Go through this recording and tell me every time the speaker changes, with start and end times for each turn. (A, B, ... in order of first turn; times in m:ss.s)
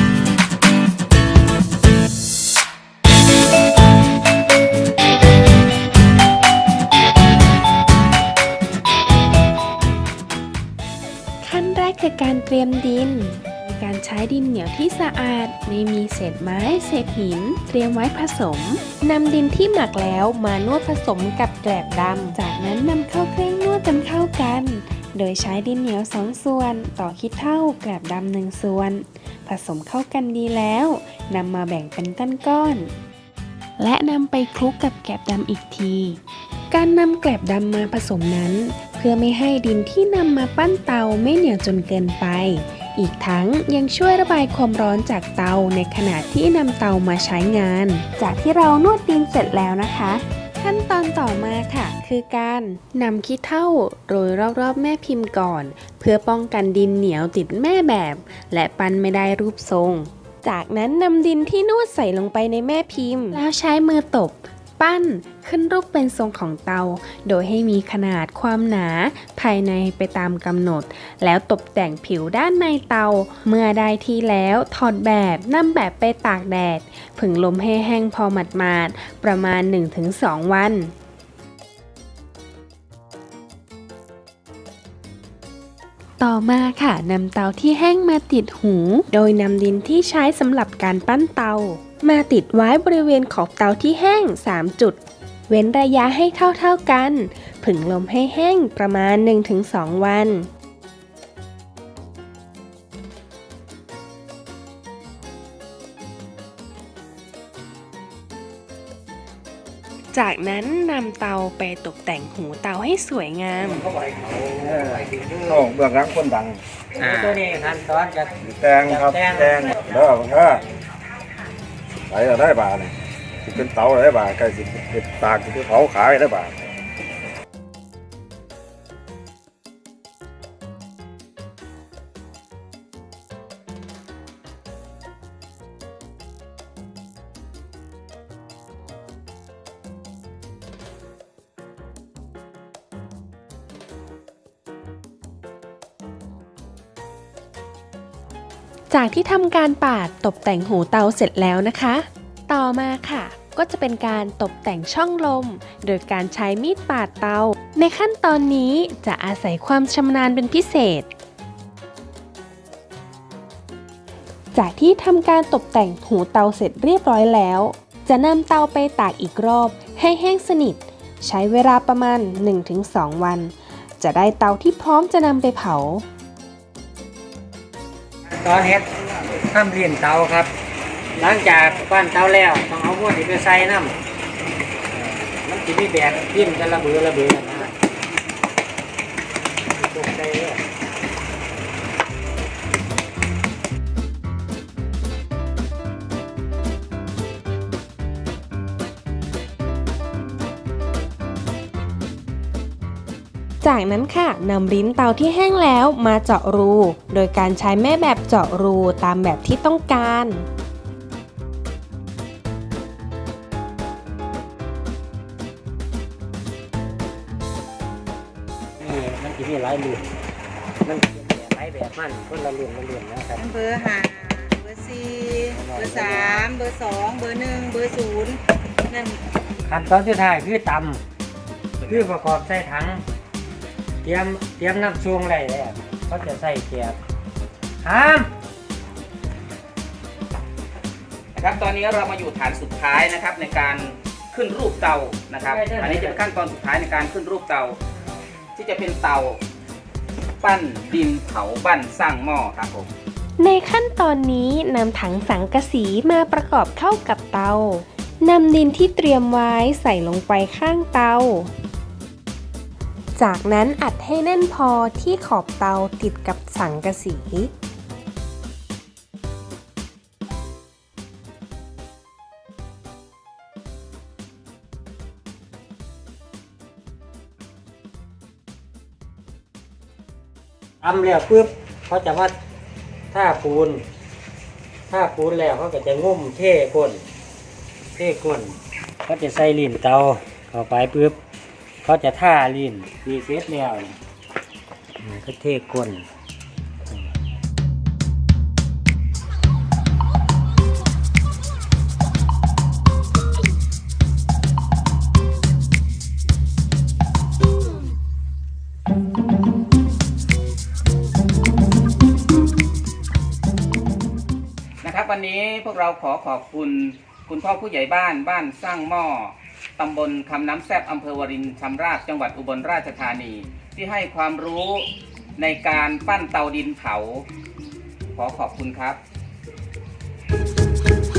0:11.4-0:32.9 A
0:33.8-0:36.2 A
0:36.7-1:20.9 A
1:26.2-1:40.5 A
1:50.1-1:53.9 A
1:53.6-1:55.7 B
1:55.5-1:56.6 C
1:57.0-2:00.6 B
1:57.0-1:57.4 D
1:58.5-2:00.6 C
2:02.1-2:02.9 C
2:03.5-2:06.6 C
2:28.9-2:41.1 A
2:44.5-2:56.0 A
2:58.3-3:00.5 B
3:01.2-3:04.0 B
3:04.9-3:07.8 B
3:09.8-3:10.6 B
3:23.6-3:30.5 A
3:38.8-3:40.0 B
3:40.8-3:43.4 B
3:43.4-3:49.2 E
3:45.5-3:46.4 B
3:49.7-3:51.0 B
3:51.8-3:52.1 D
3:51.9-3:53.0 B
3:54.0-3:57.0 B
3:57.8-3:58.3 B
4:01.4-4:07.8 D
4:05.5-4:06.2 B
4:08.6-4:09.4 D
4:10.4-4:12.9 D
4:13.4-4:21.5 A
4:23.2-4:27.5 A
4:40.8-4:42.3 B
4:43.1-4:43.8 B
4:44.9-4:47.0 B
4:48.0-4:51.2 B
4:51.8-4:54.0 B
4:55.0-4:56.0 B
5:14.8-5:27.2 D
5:28.2-5:29.0 D